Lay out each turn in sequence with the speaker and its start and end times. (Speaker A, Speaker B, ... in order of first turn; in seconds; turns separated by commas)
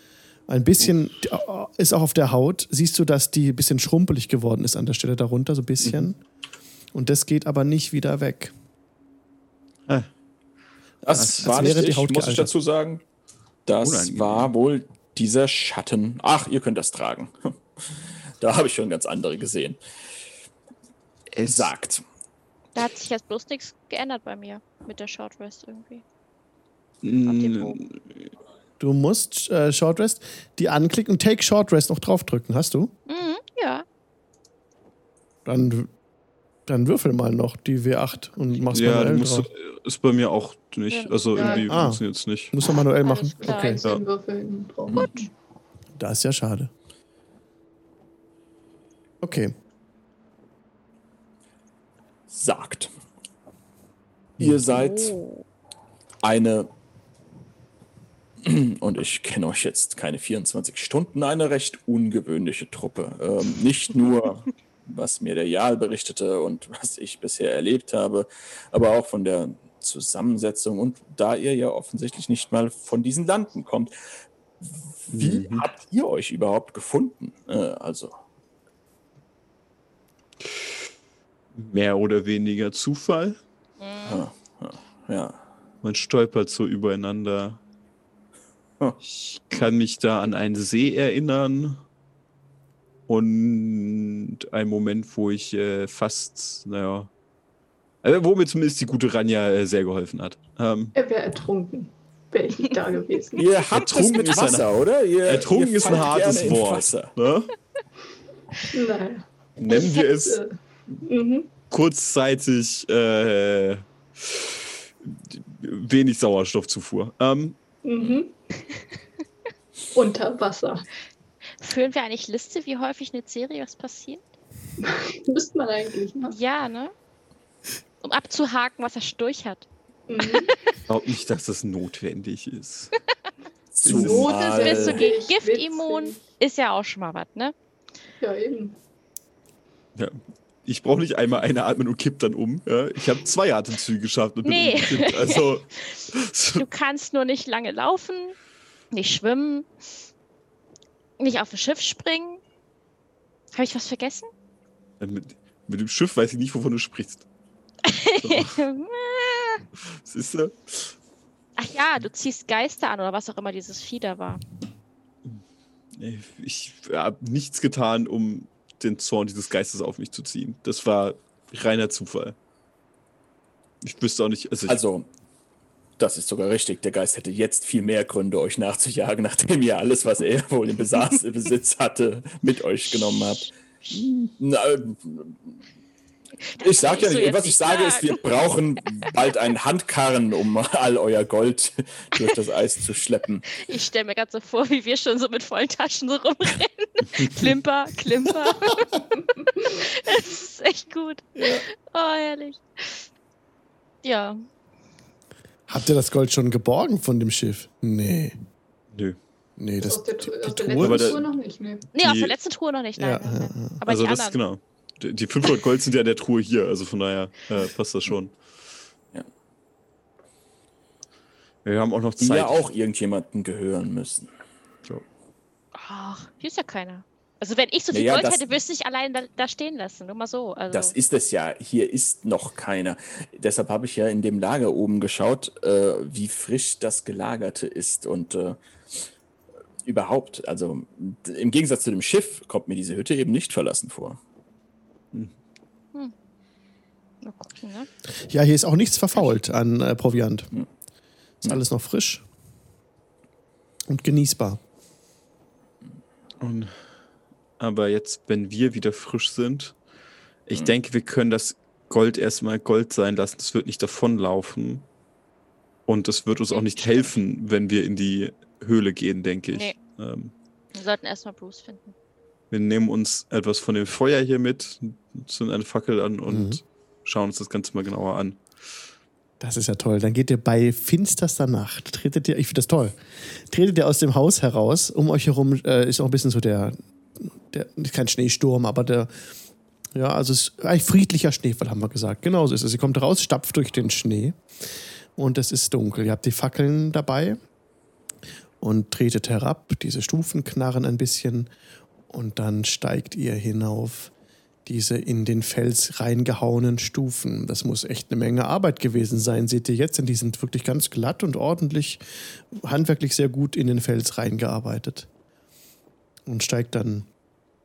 Speaker A: 0.5-6.2, Speaker B: 5.8-6.1, Speaker A: 6.9-8.5, Speaker C: 11.0-13.0, Speaker B: 11.1-11.8, Speaker A: 11.4-12.6, Speaker C: 13.7-17.6, Speaker B: 13.8-14.5, Speaker C: 18.4-19.8, Speaker B: 21.3-21.7, Speaker C: 21.4-22.0, Speaker D: 22.8-26.0, Speaker B: 27.0-28.3, Speaker D: 27.2-27.8, Speaker A: 28.8-32.9, Speaker D: 33.1-33.9, Speaker A: 35.5-35.9, Speaker A: 36.7-39.5, Speaker B: 38.7-42.5, Speaker D: 40.9-41.7, Speaker E: 41.3-41.7, Speaker A: 41.7-43.8, Speaker D: 43.0-43.9, Speaker E: 43.5-45.3, Speaker D: 44.9-45.3, Speaker A: 46.0-46.7, Speaker A: 49.2-49.5, Speaker C: 52.3-52.9, Speaker C: 54.4-55.1, Speaker D: 54.7-55.5, Speaker C: 56.2-56.7, Speaker C: 58.4-73.9, Speaker C: 74.7-78.2, Speaker B: 75.1-75.7, Speaker A: 75.2-75.5, Speaker B: 80.4-80.7, Speaker B: 81.5-83.4, Speaker D: 83.8-84.2, Speaker C: 84.0-85.4, Speaker B: 85.8-87.6, Speaker B: 89.0-91.8, Speaker B: 93.1-97.1, Speaker B: 98.0-100.9, Speaker E: 101.0-103.5, Speaker C: 103.4-107.1, Speaker B: 103.7-107.5, Speaker E: 108.7-111.5, Speaker B: 109.6-110.4, Speaker B: 111.7-117.6, Speaker E: 117.8-118.8, Speaker E: 119.9-120.9, Speaker D: 121.6-124.3, Speaker E: 124.8-126.4, Speaker D: 126.3-126.9, Speaker D: 128.0-129.7, Speaker E: 130.1-130.5, Speaker D: 130.2-130.6, Speaker B: 130.9-132.9, Speaker C: 133.7-135.1, Speaker E: 133.9-136.2, Speaker B: 133.9-134.3, Speaker D: 133.9-137.5, Speaker E: 138.2-138.8, Speaker B: 139.9-146.7, Speaker D: 144.4-148.3, Speaker D: 148.9-149.7, Speaker D: 151.2-152.4, Speaker D: 153.5-154.3, Speaker B: 155.0-157.2, Speaker D: 157.8-159.7, Speaker B: 158.2-158.6, Speaker B: 159.8-160.9, Speaker D: 161.6-164.4, Speaker B: 165.9-172.4, Speaker B: 173.8-174.8, Speaker C: 174.7-175.1, Speaker C: 176.0-185.5, Speaker D: 182.9-183.3, Speaker D: 186.4-188.3, Speaker C: 186.6-193.6, Speaker D: 188.9-189.3, Speaker D: 193.6-203.1, Speaker A: 201.4-201.7, Speaker D: 204.0-204.4, Speaker A: 205.7-208.4, Speaker B: 208.9-209.2, Speaker A: 209.6-211.2, Speaker E: 209.8-211.9, Speaker B: 210.8-211.3, Speaker B: 211.9-212.3, Speaker D: 211.9-214.4, Speaker A: 213.0-213.8, Speaker B: 213.8-218.3, Speaker B: 221.6-222.6, Speaker C: 222.2-224.3, Speaker D: 225.8-230.9, Speaker C: 227.9-228.4, Speaker C: 230.7-238.6, Speaker C: 239.8-244.2, Speaker D: 247.2-247.9, Speaker A: 248.3-250.5, Speaker A: 251.4-252.2, Speaker A: 253.9-254.6, Speaker B: 256.4-256.7, Speaker B: 257.6-259.8, Speaker B: 260.5-264.9, Speaker B: 265.9-270.3, Speaker D: 266.5-267.2, Speaker D: 269.5-269.8, Speaker D: 270.7-271.9, Speaker B: 272.5-278.4, Speaker A: 276.3-276.6, Speaker A: 279.4-289.1, Speaker A: 289.9-294.4, Speaker A: 295.2-297.4, Speaker A: 298.6-301.5, Speaker A: 302.1-304.1, Speaker A: 304.7-312.0, Speaker A: 312.5-315.1, Speaker A: 316.3-317.1